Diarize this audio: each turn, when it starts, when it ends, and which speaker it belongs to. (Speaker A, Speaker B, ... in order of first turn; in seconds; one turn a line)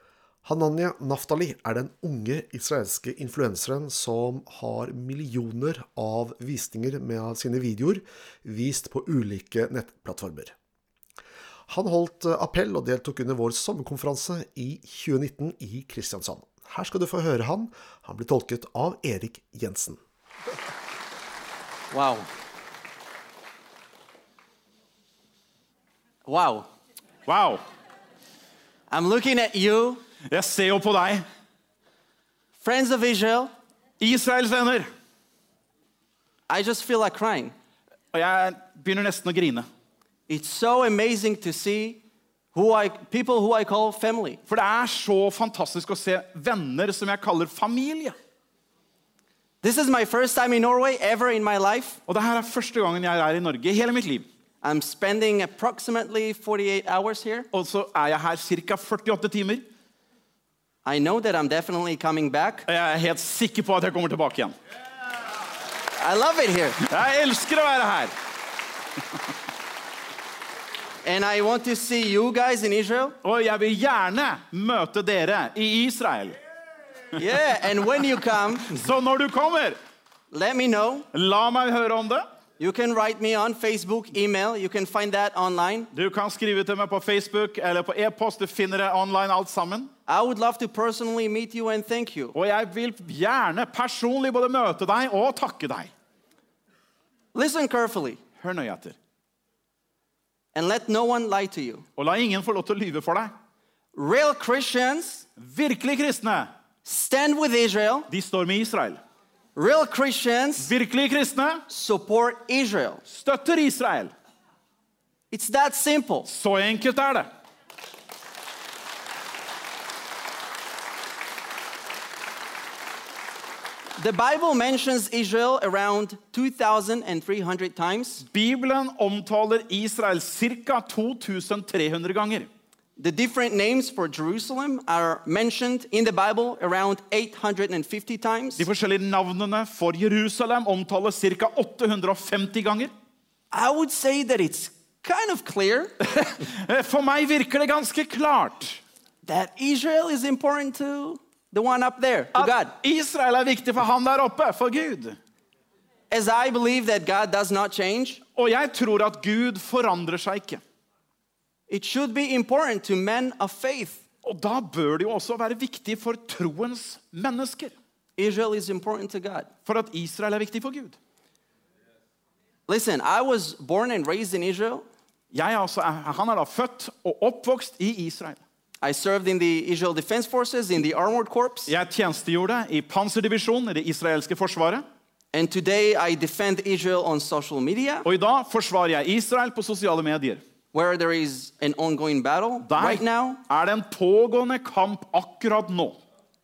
Speaker A: 0.4-10.5
Speaker A: 11.7-20.0
Speaker B: 21.9-22.3
Speaker B: 26.2-26.7
Speaker C: 27.2-27.6
Speaker B: 28.9-30.0
Speaker C: 30.3-31.2
Speaker B: 32.6-33.5
Speaker C: 34.0-34.9
Speaker B: 36.5-37.5
Speaker C: 38.1-39.7
Speaker B: 40.3-42.0
Speaker B: 42.5-44.4
Speaker C: 44.5-48.1
Speaker B: 49.6-52.0
Speaker C: 52.1-54.2
Speaker B: 54.6-57.5
Speaker C: 57.5-59.6
Speaker B: 60.8-62.7
Speaker C: 62.6-64.5
Speaker B: 65.9-66.8
Speaker C: 66.8-68.1
Speaker B: 71.0-73.2
Speaker C: 73.2-76.4
Speaker B: 77.1-78.8
Speaker C: 78.7-79.8
Speaker B: 80.3-81.1
Speaker C: 81.1-82.2
Speaker B: 82.6-85.9
Speaker C: 85.9-89.9
Speaker B: 90.1-92.3
Speaker C: 92.3-95.9
Speaker B: 97.3-98.2
Speaker C: 98.4-99.0
Speaker B: 100.5-101.8
Speaker C: 102.0-103.3
Speaker B: 103.9-105.2
Speaker C: 105.4-106.5
Speaker B: 106.8-108.1
Speaker C: 108.1-109.0
Speaker B: 109.5-110.7
Speaker C: 110.6-111.6
Speaker B: 111.7-113.0
Speaker C: 113.1-114.1
Speaker B: 115.3-116.3
Speaker C: 116.3-117.3
Speaker B: 124.0-128.2
Speaker C: 128.2-132.5
Speaker B: 133.0-138.7
Speaker C: 138.6-142.9
Speaker B: 143.5-145.9
Speaker C: 146.1-148.8
Speaker B: 149.2-152.7
Speaker C: 152.3-155.2
Speaker B: 156.1-158.2
Speaker C: 158.3-160.6
Speaker B: 161.7-164.0
Speaker C: 164.2-167.7
Speaker B: 168.2-169.5
Speaker C: 169.7-170.9
Speaker B: 172.7-174.8
Speaker C: 175.3-178.4
Speaker B: 178.8-181.7
Speaker C: 181.7-184.8
Speaker B: 185.3-188.1
Speaker C: 188.0-190.4
Speaker B: 190.7-193.4
Speaker C: 192.7-196.0